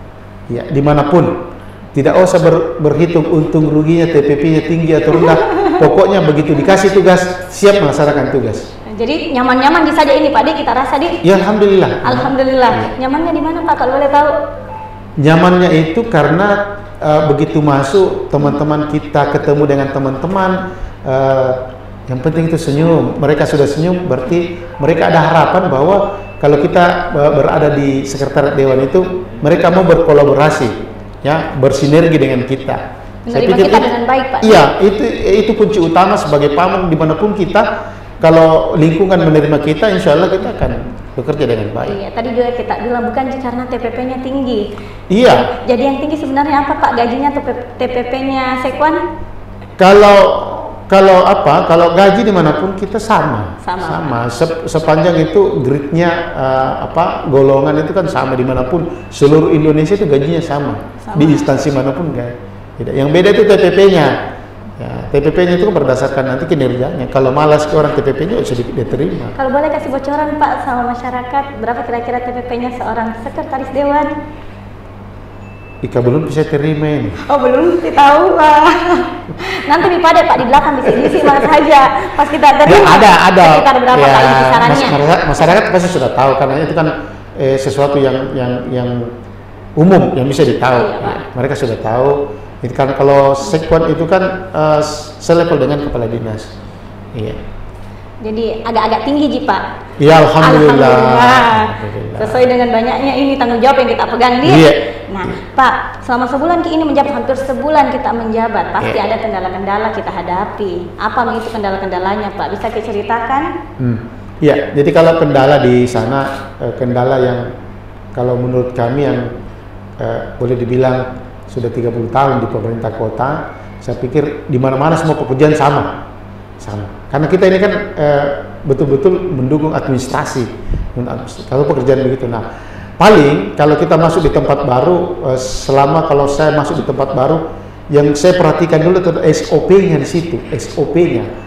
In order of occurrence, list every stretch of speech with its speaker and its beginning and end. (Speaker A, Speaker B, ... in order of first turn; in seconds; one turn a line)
Speaker A: 0.5-8.7
Speaker B: 8.9-11.2
Speaker A: 11.2-12.9
Speaker B: 12.0-14.3
Speaker A: 15.2-33.9
Speaker B: 33.3-34.6
Speaker A: 34.4-37.7
Speaker A: 38.2-42.0
Speaker B: 41.8-44.7
Speaker A: 45.1-45.5
Speaker B: 45.2-49.0
Speaker A: 49.8-64.3
Speaker B: 53.6-54.2
Speaker B: 61.0-61.5
Speaker A: 64.8-69.3
Speaker B: 69.3-74.1
Speaker A: 75.8-77.2
Speaker B: 77.2-85.0
Speaker A: 81.0-81.5
Speaker A: 82.6-89.1
Speaker A: 89.8-96.5
Speaker B: 90.7-91.2
Speaker A: 97.1-97.4
Speaker B: 98.2-99.6
Speaker A: 100.0-102.5
Speaker B: 100.3-113.5
Speaker A: 104.4-105.3
Speaker A: 113.8-117.5
Speaker A: 118.1-119.4
Speaker A: 120.0-126.0
Speaker A: 126.6-132.4
Speaker A: 133.0-141.3